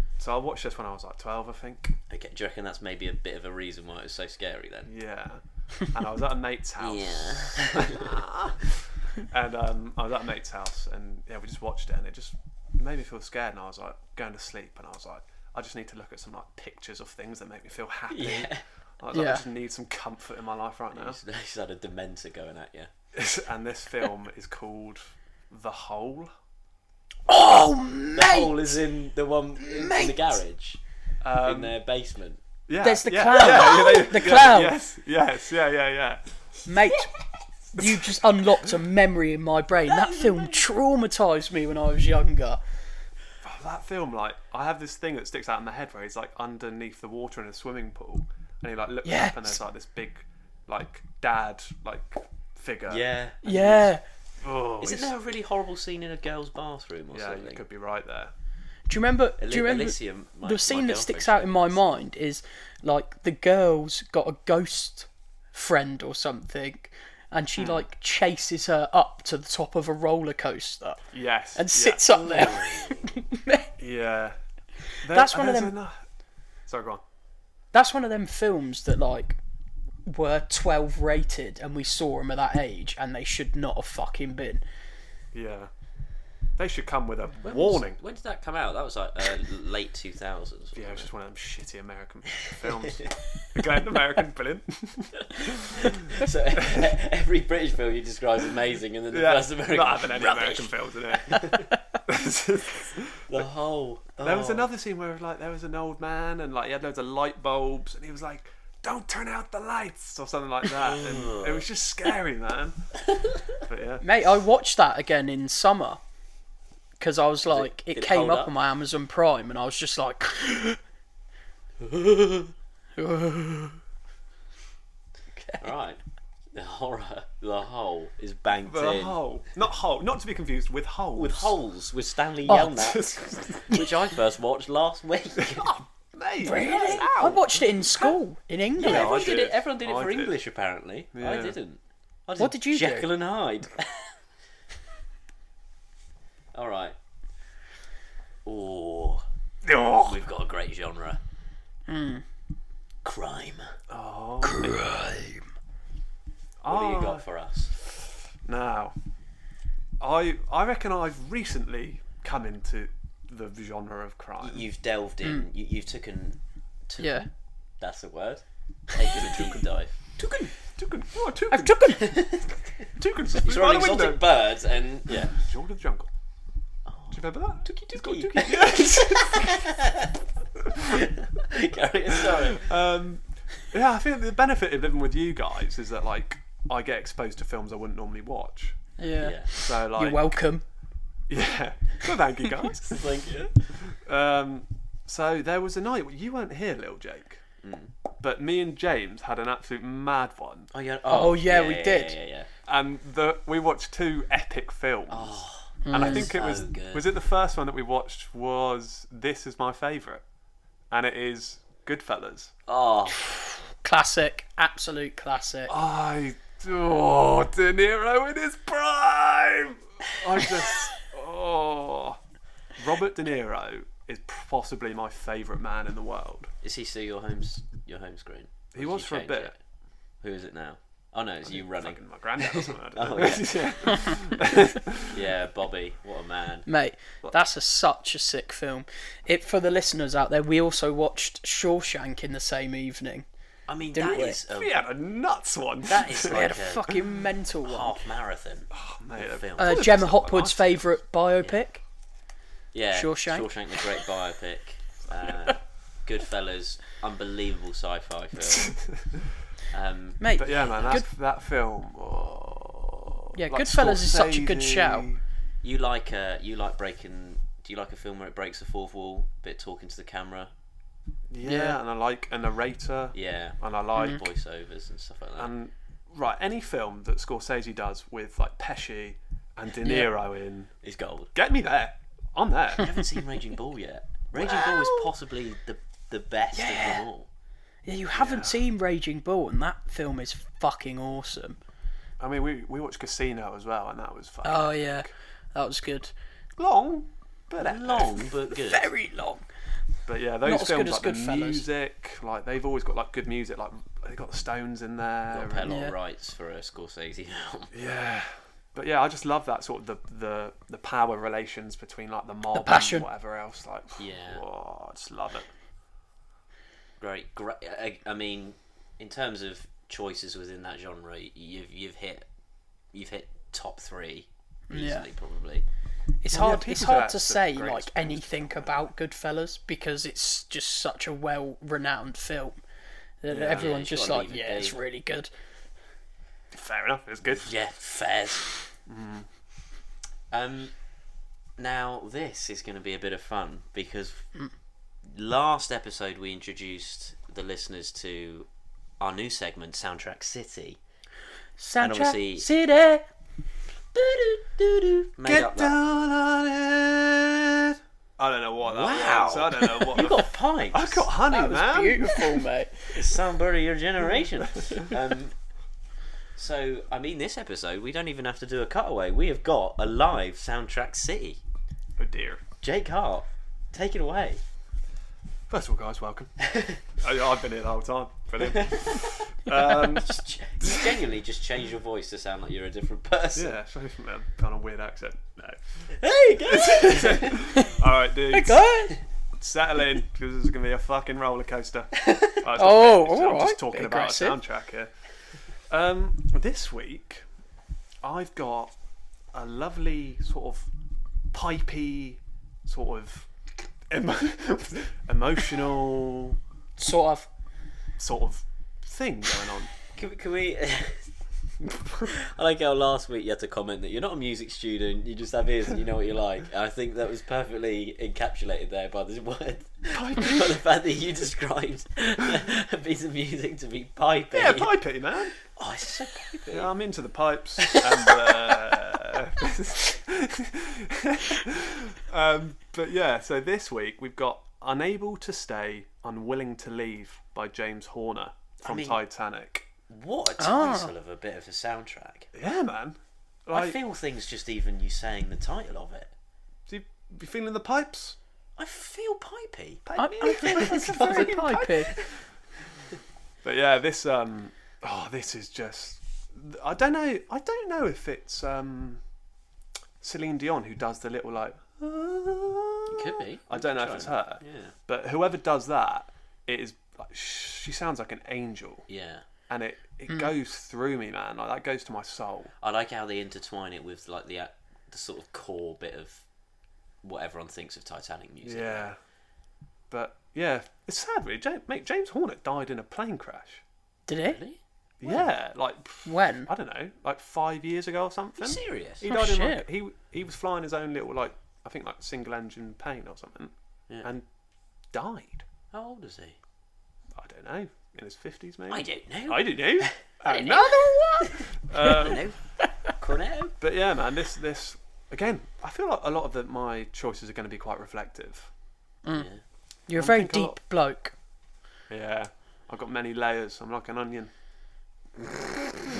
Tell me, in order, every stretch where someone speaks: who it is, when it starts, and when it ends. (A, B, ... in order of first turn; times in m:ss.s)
0:00.2-0:02.0 A
0:02.1-0:04.9 B
0:04.9-0:21.2 A
0:06.8-0:08.2 B
0:18.1-0:18.6 B
0:19.1-0:19.4 C
0:20.9-0:22.9 B
0:23.1-0:26.3 A
0:27.3-0:28.7 C
0:28.1-0:30.8 B
0:29.6-0:30.3 C
0:31.2-0:31.8 A
0:31.4-0:32.4 B
0:32.7-0:36.2 A
0:32.8-0:34.8 C
0:36.7-0:37.1 C
0:37.7-0:42.6 C
0:37.8-0:38.2 A
0:39.9-0:40.7 B
0:43.4-0:53.1 A
0:49.0-0:49.6 C
0:52.9-0:54.0 B
0:53.4-0:54.0 C
0:54.4-0:55.1 A
0:54.8-0:57.6 B
0:57.1-0:58.3 A
0:58.9-1:11.0 C
0:59.4-1:01.8 B
1:07.6-1:07.8 A
1:11.1-1:12.0 A
1:11.6-1:13.7 C
1:12.1-1:13.2 B
1:13.8-1:14.4 A
1:15.0-1:16.0 A
1:15.1-1:15.8 C
1:16.7-1:17.0 A
1:17.7-1:19.4 C
1:20.1-1:24.6 C
1:25.3-1:25.7 A
1:26.6-1:28.0 A
1:27.4-1:31.1 B
1:30.8-1:36.9 A
1:32.6-1:33.2 B
1:35.4-1:41.7 B
1:39.1-1:43.4 A
1:43.3-1:44.7 B
1:44.2-1:53.0 A
1:50.7-1:51.7 B
1:53.6-1:54.0 A
1:54.0-1:56.0 C
1:57.0-2:00.8 C
1:57.5-1:58.5 B
2:01.8-2:02.5 B
2:03.0-2:03.8 C
2:05.6-2:06.0 B
2:06.5-2:09.2 B
2:08.6-2:11.6 A
2:11.2-2:15.7 B
2:12.5-2:12.9 C
2:12.7-2:13.8 A
2:15.4-2:18.2 A
2:16.4-2:19.3 C
2:16.5-2:17.1 B
2:18.8-2:20.4 A
2:18.8-2:24.1 B
2:21.1-2:21.6 A
2:22.4-2:23.1 C
2:26.5-2:27.0 B
2:28.4-2:29.2 B
2:29.6-2:30.2 A
2:30.0-2:31.2 B
2:31.9-2:32.2 C
2:33.0-2:33.8 B
2:33.9-2:34.9 A
2:34.4-2:35.4 B
2:36.6-2:37.2 A
2:36.7-2:37.7 B
2:38.4-2:39.0 A
2:40.0-2:44.7 A
2:44.4-2:47.3 B
2:47.0-2:47.3 C
2:47.8-2:50.5 B
2:49.1-2:49.7 A
2:50.8-2:52.0 A
2:51.5-2:52.3 C
2:52.0-2:52.9 B
2:53.0-2:54.4 A
2:53.4-2:55.4 B
2:55.1-2:56.1 A
2:56.9-3:00.2 B
2:57.1-2:59.7 A
3:00.7-3:02.7 B
3:00.8-3:01.1 A
3:02.2-3:08.8 A
3:09.0-3:10.6 C
3:09.2-3:09.5 B
3:09.5-3:10.4 A
3:11.3-3:13.1 A
3:12.8-3:13.7 B
3:13.8-3:17.4 A
3:17.6-3:17.9 B
3:18.2-3:20.7 A
3:20.7-3:22.5 B
3:21.1-3:22.2 C
3:22.7-3:30.2 A
3:25.1-3:27.1 B
3:25.8-3:26.3 C
3:30.9-3:32.5 A
3:32.7-3:33.2 B
3:33.8-3:35.7 C
3:35.7-3:42.2 A
3:42.8-3:46.5 A
3:46.6-3:49.6 B
3:48.7-3:49.5 A
3:50.2-3:54.2 B
3:51.5-3:55.2 A
3:55.1-3:56.7 B
3:56.7-4:03.3 C
4:03.7-4:04.7 B
4:03.9-4:04.4 C
4:04.5-4:06.5 A
4:05.8-4:07.0 B
4:06.3-4:08.0 C
4:07.6-4:09.9 B
4:08.7-4:10.9 A
4:09.6-4:11.8 C
4:12.7-4:18.8 B
4:12.9-4:13.5 C
4:19.7-4:21.0 B
4:20.2-4:21.1 C
4:20.4-4:25.2 A
4:23.4-4:25.1 C
4:25.6-4:30.5 B
4:31.3-4:34.3 A
4:31.4-4:31.8 C
4:33.1-4:35.5 B
4:35.4-4:40.8 A
4:39.8-4:40.1 C
4:40.8-4:41.3 B
4:41.3-4:43.0 A
4:42.8-4:47.3 B
4:46.5-4:47.1 C
4:47.9-4:51.6 C
4:48.1-4:48.6 A
4:52.2-4:55.1 A
4:54.4-4:56.1 C
4:56.6-4:58.4 A
4:57.6-4:58.9 B
4:58.6-4:59.5 C
5:00.1-5:05.7 A
5:00.4-5:01.6 C
5:05.3-5:07.7 B
5:05.6-5:06.0 C
5:07.7-5:15.5 A
5:12.5-5:13.1 C
5:14.0-5:14.4 B
5:17.0-5:22.3 B
5:22.9-5:25.6 B
5:24.7-5:25.1 C
5:26.2-5:32.6 C
5:26.3-5:28.9 A
5:33.2-5:35.3 C
5:33.3-5:33.7 A
5:33.5-5:34.8 B
5:36.5-5:37.5 A
5:37.4-5:38.5 B
5:38.9-5:39.3 A
5:40.3-5:40.7 B
5:41.6-5:44.3 B
5:45.1-5:48.5 B
5:49.0-5:50.8 B
5:51.6-5:53.0 C
5:51.8-5:52.5 B
5:53.9-5:55.8 B
5:55.2-6:02.4 A
5:58.6-6:01.1 B
6:01.3-6:02.8 C
6:02.9-6:05.3 B
6:06.4-6:11.4 B
6:12.0-6:12.4 A
6:12.6-6:14.4 B
6:15.5-6:21.0 A
6:16.4-6:16.8 B
6:18.4-6:23.6 B
6:23.4-6:28.7 A
6:25.9-6:27.6 B
6:28.3-6:29.0 C
6:29.4-6:34.9 A
6:32.6-6:34.4 C
6:35.7-6:37.2 A
6:38.0-6:38.7 A
6:39.3-6:40.7 A
6:41.3-6:43.3 A
6:43.9-6:46.4 A
6:46.8-6:47.3 C
6:48.0-6:49.7 A
6:49.9-6:51.1 B
6:51.6-6:52.1 A
6:52.1-7:04.8 B
6:59.9-7:00.5 A
7:04.3-7:05.4 A
7:05.4-7:06.7 B
7:06.5-7:19.7 A
7:07.6-7:08.8 B
7:18.6-7:19.0 B
7:19.9-7:22.3 B
7:20.4-7:20.9 C
7:22.3-7:23.8 A
7:23.5-7:26.1 B
7:26.7-7:28.2 A
7:28.6-7:32.1 B
7:29.9-7:32.0 A
7:30.0-7:31.9 C
7:33.4-7:39.0 A
7:40.0-7:48.9 A
7:42.9-7:44.7 B
7:48.9-7:49.2 B
7:49.5-7:52.5 A
7:52.6-7:56.3 B
7:57.0-7:58.9 B
7:58.4-7:59.0 A
7:59.9-8:03.6 A
8:04.1-8:04.4 C
8:04.3-8:05.3 B
8:05.0-8:14.2 A
8:06.0-8:06.5 C
8:08.4-8:09.0 B
8:09.1-8:09.7 C
8:14.9-8:15.5 A
8:15.7-8:16.4 B
8:17.2-8:22.3 A
8:18.7-8:20.0 B
8:20.3-8:20.7 C
8:21.2-8:23.6 B
8:23.6-8:28.5 A
8:29.1-8:29.4 B
8:29.9-8:31.1 C
8:30.0-8:30.6 A
8:31.9-8:34.3 A